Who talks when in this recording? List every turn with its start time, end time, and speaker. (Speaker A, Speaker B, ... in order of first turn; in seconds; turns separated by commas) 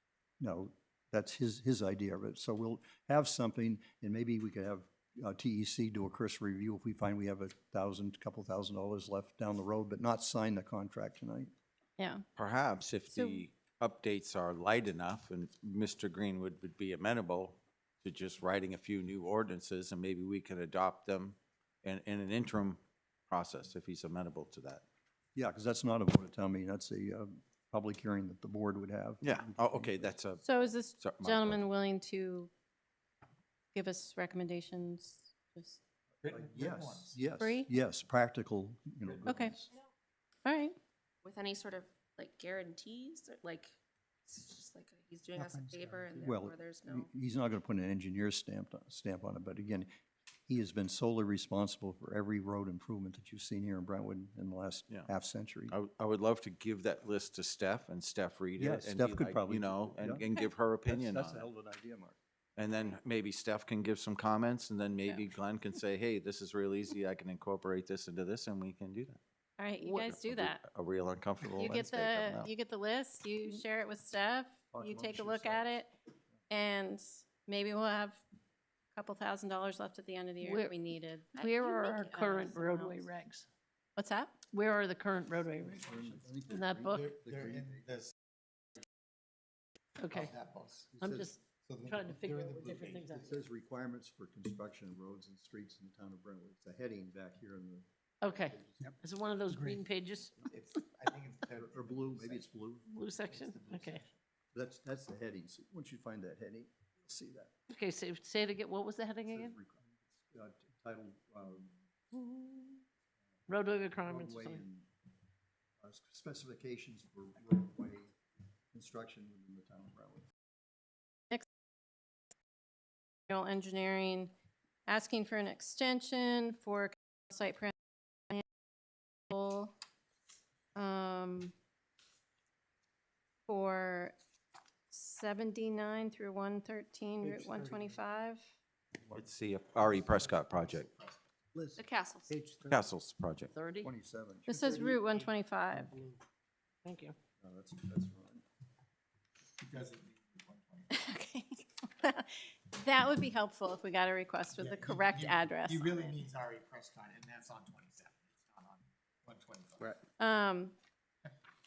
Speaker A: 0.4-11.5, Speaker B: 12.0-12.2, Speaker C: 12.4-24.8, Speaker B: 13.1-13.4, Speaker A: 25.4-30.2, Speaker C: 29.2-31.6, Speaker B: 30.4-32.5, Speaker B: 33.7-35.8, Speaker D: 36.2-37.2, Speaker A: 36.3-39.7, Speaker B: 37.4-37.7, Speaker B: 39.2-39.6, Speaker B: 40.5-40.8, Speaker E: 41.2-43.7, Speaker E: 44.2-47.1, Speaker A: 46.1-49.9, Speaker A: 50.5-55.7, Speaker C: 55.7-61.5, Speaker A: 58.6-60.2, Speaker A: 60.9-62.2, Speaker C: 62.6-69.2, Speaker B: 69.6-70.6, Speaker C: 70.1-72.5, Speaker B: 71.6-75.9, Speaker A: 74.7-75.8, Speaker B: 76.5-78.2, Speaker B: 78.9-83.0, Speaker F: 80.4-80.8, Speaker F: 81.4-83.5, Speaker B: 84.0-84.4, Speaker F: 84.5-85.8, Speaker A: 85.6-87.9, Speaker F: 86.5-87.1, Speaker D: 86.9-88.1, Speaker F: 90.0-90.3, Speaker D: 90.1-90.9, Speaker A: 90.9-91.4, Speaker F: 91.0-93.4, Speaker D: 91.6-93.3, Speaker A: 93.1-98.9, Speaker F: 98.2-100.3, Speaker D: 99.5-102.5, Speaker A: 101.6-102.9, Speaker F: 102.8-104.0, Speaker D: 103.2-104.1, Speaker A: 104.5-107.5, Speaker F: 107.7-109.5, Speaker A: 109.3-111.7, Speaker F: 112.1-112.7, Speaker F: 113.5-114.6, Speaker A: 114.0-114.9, Speaker A: 115.8-118.1, Speaker A: 118.7-120.3, Speaker B: 123.3-124.3, Speaker B: 124.9-127.7, Speaker B: 129.3-129.7, Speaker B: 130.7-131.5, Speaker B: 133.5-134.2, Speaker B: 134.9-138.4, Speaker D: 137.2-137.9, Speaker C: 139.1-140.9, Speaker D: 139.7-141.3, Speaker E: 141.8-142.3, Speaker D: 142.3-142.7, Speaker C: 142.7-143.5, Speaker F: 143.5-143.9, Speaker A: 143.8-145.0, Speaker B: 144.5-145.9, Speaker F: 146.8-147.2, Speaker A: 147.4-148.4, Speaker D: 149.6-151.1, Speaker B: 150.9-156.2, Speaker D: 154.6-160.0, Speaker B: 160.2-160.7